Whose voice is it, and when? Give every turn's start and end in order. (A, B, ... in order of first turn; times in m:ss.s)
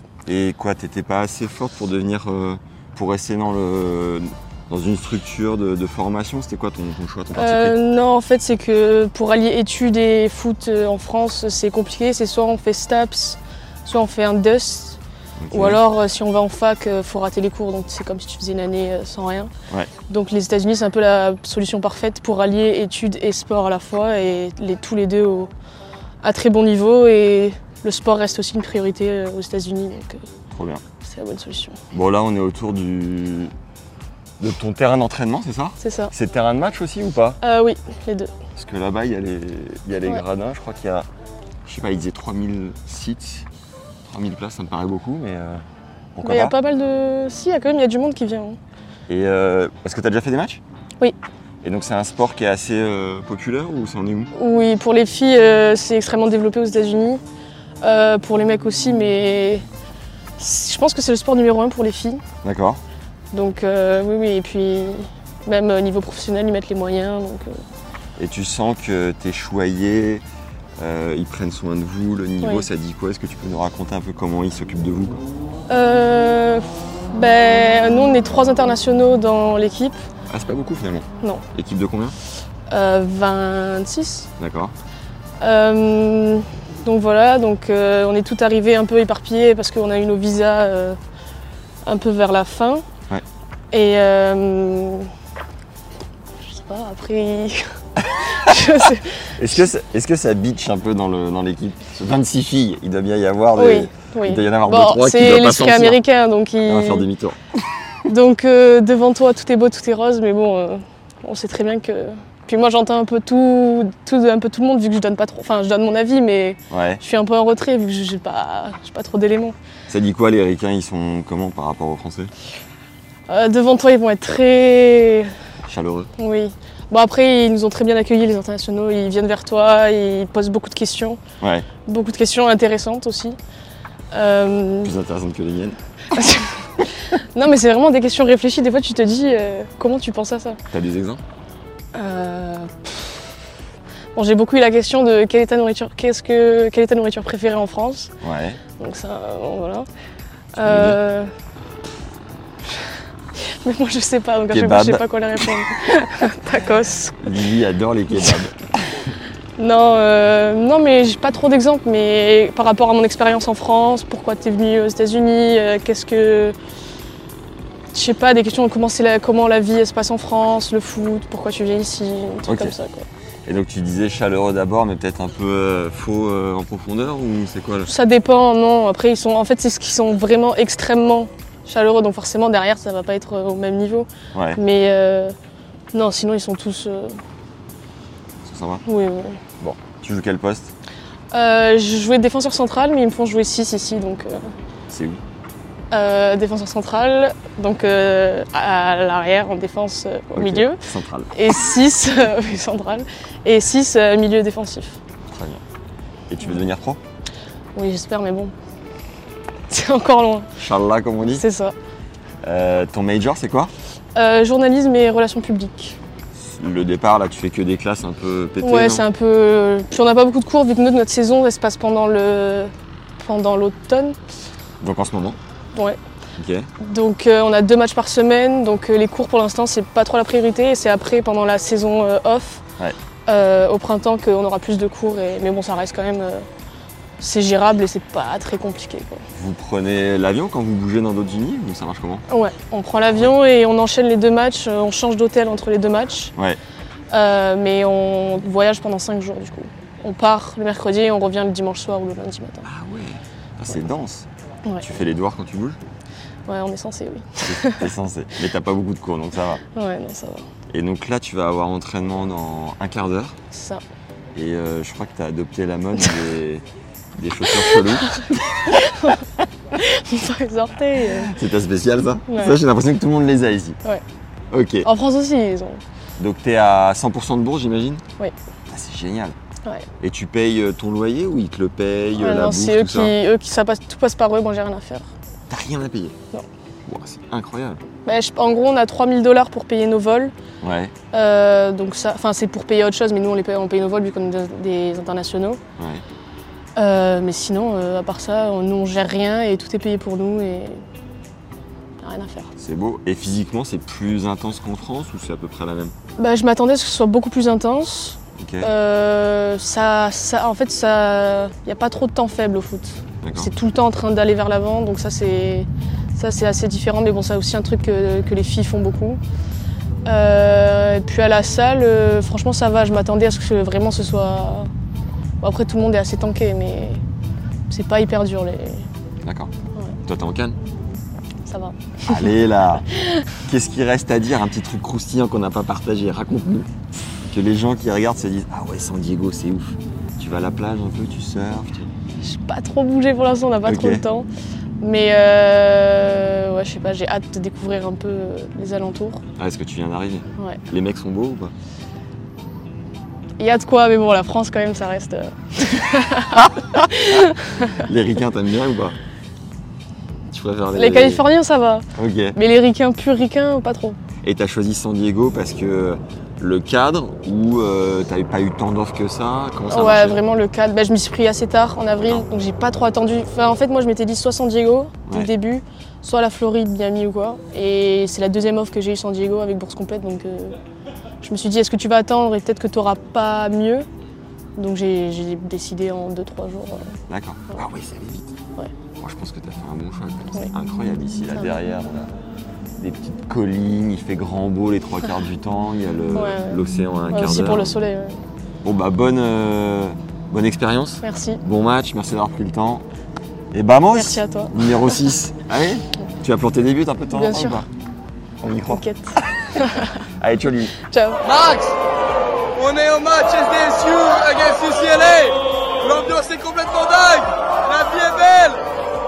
0:00.2-0:07.8 A
0:07.3-0:15.0 B
0:15.4-0:15.8 A
0:15.5-0:19.5 B
0:20.1-0:25.5 B
0:26.2-0:30.2 B
0:30.5-0:30.8 A
0:31.0-0:31.8 B
0:31.9-0:33.5 A
0:34.4-0:37.4 A
0:35.8-0:36.1 B
0:37.4-0:38.3 B
0:38.6-0:41.1 A
0:41.6-0:43.4 A
0:44.0-0:45.6 A
0:46.1-0:46.6 A
0:46.2-0:48.6 B
0:49.1-0:50.6 A
0:51.6-0:54.3 A
0:54.3-0:57.2 B
0:57.8-0:59.6 B
1:00.4-1:02.2 B
1:02.4-1:02.8 A
1:03.3-1:07.6 B
1:08.2-1:10.2 A
1:10.8-1:15.2 A
1:12.4-1:12.7 B
1:15.7-1:20.0 B
1:20.3-1:22.2 A
1:22.7-1:24.3 B
1:24.4-1:24.7 A
1:25.4-1:31.0 B
1:31.8-1:32.8 B
1:33.7-1:35.1 B
1:36.4-1:37.7 B
1:38.3-1:39.6 B
1:39.4-1:46.0 A
1:43.6-1:47.0 B
1:46.6-1:47.4 A
1:48.0-1:59.6 B
1:56.7-1:57.0 A
1:59.9-2:02.3 A
2:03.3-2:05.3 B
2:05.7-2:06.1 A
2:06.2-2:11.2 B
2:11.4-2:11.7 A
2:11.8-2:13.4 B
2:14.1-2:14.9 B
2:14.8-2:15.8 A
2:16.1-2:20.6 B
2:20.7-2:21.2 A
2:21.9-2:23.3 B
2:24.1-2:28.1 B
2:28.2-2:28.6 A
2:28.8-2:29.9 B
2:30.6-2:31.3 B
2:30.6-2:31.0 A
2:33.4-2:37.2 B
2:34.5-2:35.4 A
2:37.2-2:38.5 A
2:39.6-2:46.6 B
2:47.9-2:53.0 B
2:52.4-2:52.8 A
2:53.4-2:57.9 A
2:57.8-3:05.3 B
3:04.3-3:04.6 A
3:05.9-3:07.2 B
3:08.4-3:08.8 A
3:08.8-3:09.4 B
3:09.6-3:10.7 A
3:11.3-3:14.5 B
3:14.9-3:15.2 A
3:15.9-3:20.8 B
3:20.3-3:21.3 A
3:21.3-3:25.0 B
3:25.3-3:25.6 A
3:26.3-3:27.0 A
3:27.8-3:28.5 B
3:29.7-3:30.5 B
3:30.6-3:31.4 A
3:31.2-3:31.7 B
3:32.4-3:33.7 A
3:34.2-3:36.0 B
3:36.4-3:39.0 A
3:38.6-3:44.2 B
3:44.8-3:45.4 A
3:46.4-3:46.7 A
3:46.8-3:52.6 B
3:53.3-3:56.4 B
3:57.2-3:59.2 B
3:59.3-4:02.2 A
4:02.3-4:06.3 B
4:07.1-4:12.6 B
4:12.6-4:14.3 A
4:14.8-4:15.8 A
4:16.5-4:17.9 B
4:17.4-4:19.6 A
4:19.7-4:20.5 B
4:20.7-4:23.4 A
4:23.5-4:23.8 B
4:24.3-4:26.6 A
4:27.2-4:28.7 A
4:27.5-4:29.2 B
4:29.7-4:31.3 B
4:31.3-4:33.8 A
4:32.3-4:32.6 B
4:34.5-4:34.9 A
4:34.8-4:35.8 B
4:36.2-4:38.0 A
4:38.7-4:39.4 A
4:40.0-4:43.1 A
4:42.2-4:45.1 B
4:45.5-4:46.2 A
4:46.8-4:47.8 A
4:48.0-4:50.3 B
4:50.6-4:50.9 A
4:51.1-4:55.6 B
4:55.8-4:56.0 A
4:56.8-5:00.8 B
5:02.0-5:02.5 B
5:02.6-5:05.9 A
5:06.2-5:19.2 B
5:08.4-5:08.7 A
5:13.2-5:13.5 A
5:20.0-5:24.7 B
5:25.4-5:27.0 B
5:27.7-5:28.9 B
5:29.2-5:29.5 A
5:30.0-5:30.6 A
5:31.4-5:32.3 B
5:32.1-5:32.8 A
5:33.0-5:33.2 B
5:33.4-5:36.7 A
5:37.3-5:41.9 A
5:42.2-5:44.3 B
5:43.6-5:44.0 A
5:44.8-5:49.2 B
5:49.4-5:51.5 A
5:53.4-5:57.8 B
5:56.3-5:57.2 A
5:57.7-5:59.0 A
6:00.3-6:01.2 A
6:00.7-6:04.0 B
6:02.0-6:02.4 A
6:04.2-6:10.2 A
6:09.7-6:20.6 B
6:21.2-6:23.9 B
6:24.6-6:26.9 B
6:27.1-6:28.3 A
6:29.0-6:32.1 A
6:31.2-6:31.5 B
6:32.8-6:37.8 A
6:36.1-6:38.2 B
6:38.6-6:42.8 A
6:41.0-6:41.4 B
6:43.5-6:47.7 A
6:43.9-6:45.0 B
6:47.1-6:47.6 B
6:48.4-6:48.8 A
6:48.7-6:49.9 B
6:49.6-6:50.7 A
6:50.8-6:51.2 B
6:51.2-6:51.7 C
6:52.5-6:58.6 C